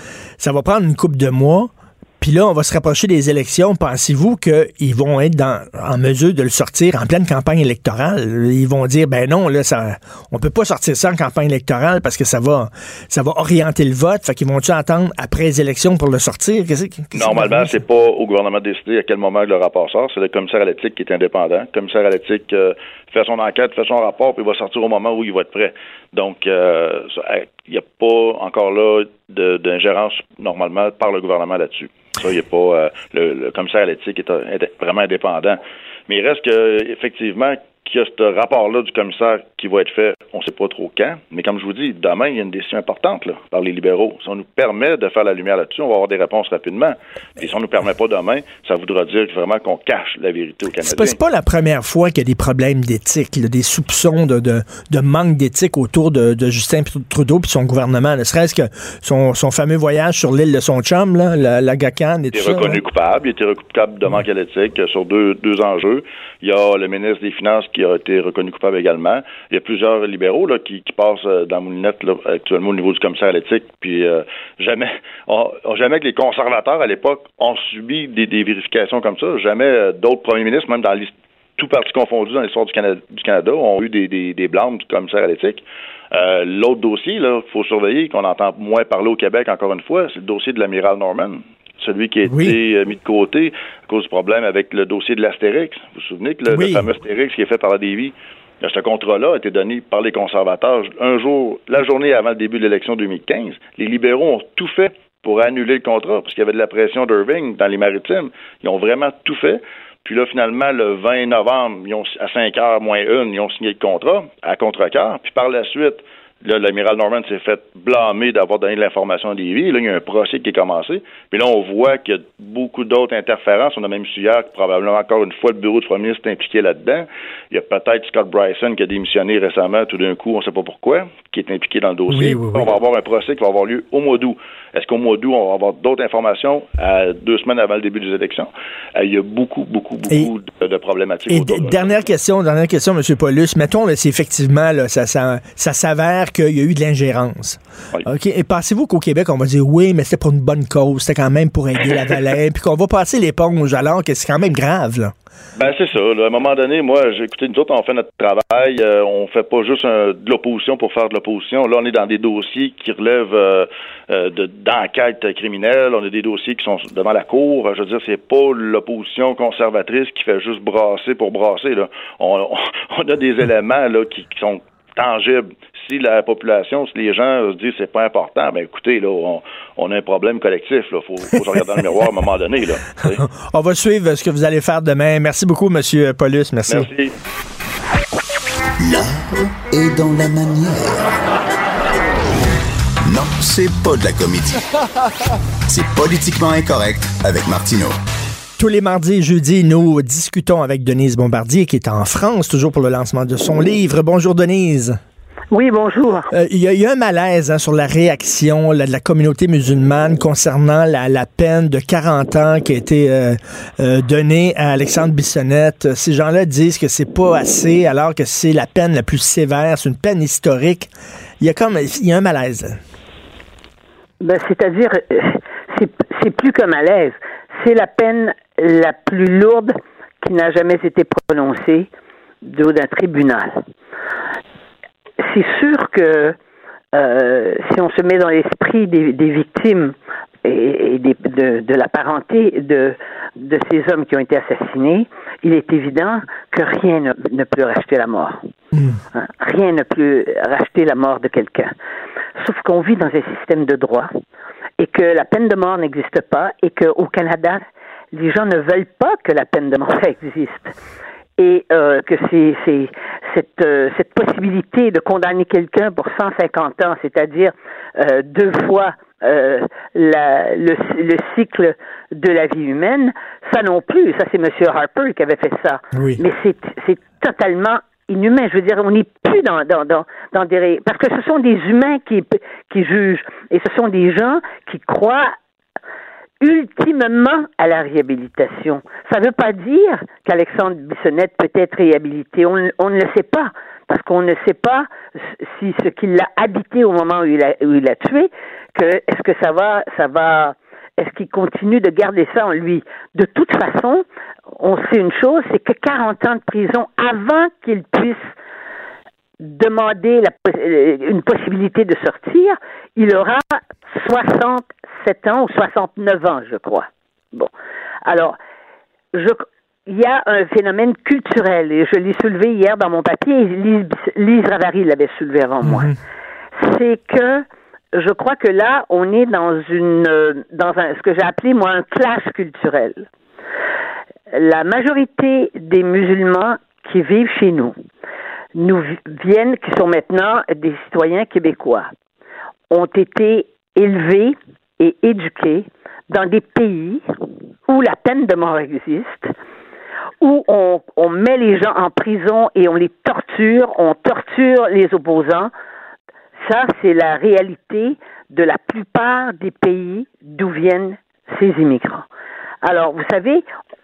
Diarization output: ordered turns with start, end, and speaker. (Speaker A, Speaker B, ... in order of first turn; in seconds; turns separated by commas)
Speaker A: 0.4-17.7, Speaker B: 17.1-51.2, Speaker A: 50.8-62.8, Speaker B: 62.3-141.9, Speaker A: 92.2-92.5, Speaker A: 96.5-96.8, Speaker A: 132.1-132.7, Speaker A: 141.3-155.1, Speaker B: 155.6-183.2, Speaker A: 183.0-186.9, Speaker B: 186.7-187.1, Speaker C: 188.8-191.2, Speaker C: 193.1-194.7, Speaker C: 195.7-198.0, Speaker A: 198.6-205.0, Speaker D: 205.5-206.3, Speaker A: 206.3-222.8, Speaker D: 224.2-231.9, Speaker D: 232.4-233.6, Speaker D: 235.2-236.3, Speaker D: 236.9-248.4, Speaker A: 248.7-249.0, Speaker D: 249.1-251.7, Speaker D: 252.4-254.1, Speaker D: 254.8-260.7, Speaker D: 261.4-285.3, Speaker A: 275.9-276.2, Speaker D: 286.4-304.0, Speaker D: 304.6-308.3, Speaker D: 309.4-317.5, Speaker D: 318.0-318.4, Speaker D: 319.1-325.9, Speaker A: 325.6-325.9, Speaker D: 326.6-333.1, Speaker D: 334.3-337.7, Speaker D: 338.6-341.9, Speaker D: 342.7-347.0, Speaker D: 347.7-349.3, Speaker D: 350.2-355.5, Speaker D: 356.4-362.1, Speaker D: 362.6-363.4